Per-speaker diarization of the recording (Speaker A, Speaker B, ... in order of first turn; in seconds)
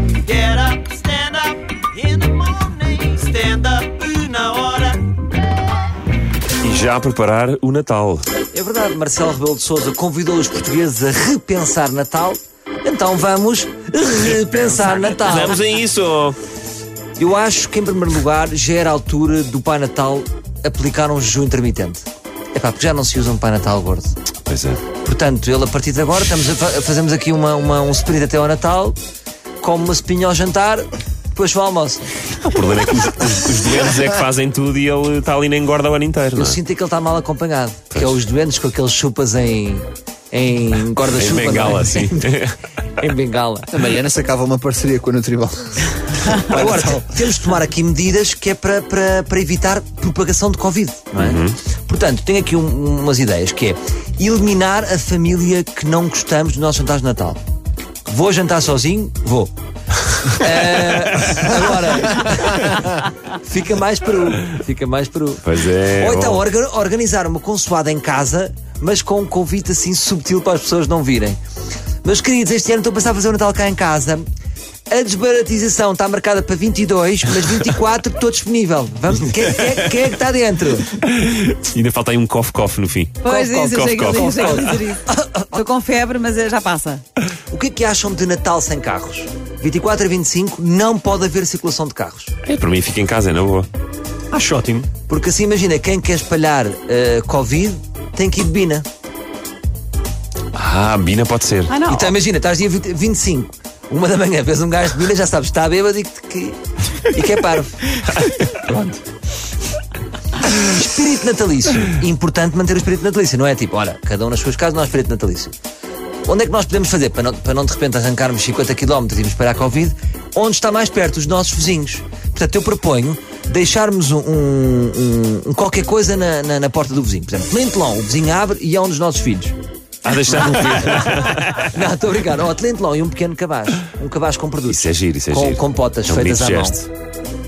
Speaker A: 0.3-5.2, 94.3-94.9
Speaker B: 6.6-8.3, 14.2-16.4, 24.5-24.9, 32.4-36.6, 41.1-42.6, 51.2-51.6, 65.4-66.4, 81.0-85.0, 92.4-93.7, 100.5-101.8, 130.0-131.7, 134.7-136.9
Speaker C: 8.5-15.6, 17.2-24.1, 25.0-29.0, 29.6-32.0, 36.4-42.4, 43.0-43.7, 46.4-57.4, 58.1-59.5, 60.2-65.5, 66.0-71.4, 72.0-74.3, 74.9-80.9, 83.3-85.6, 87.5-92.3, 95.1-98.9, 101.8-107.8, 108.6-109.0, 110.4-115.5, 116.3-129.6, 131.6-136.8
Speaker D: 43.7-47.1
Speaker E: 83.2-87.0, 101.7-102.2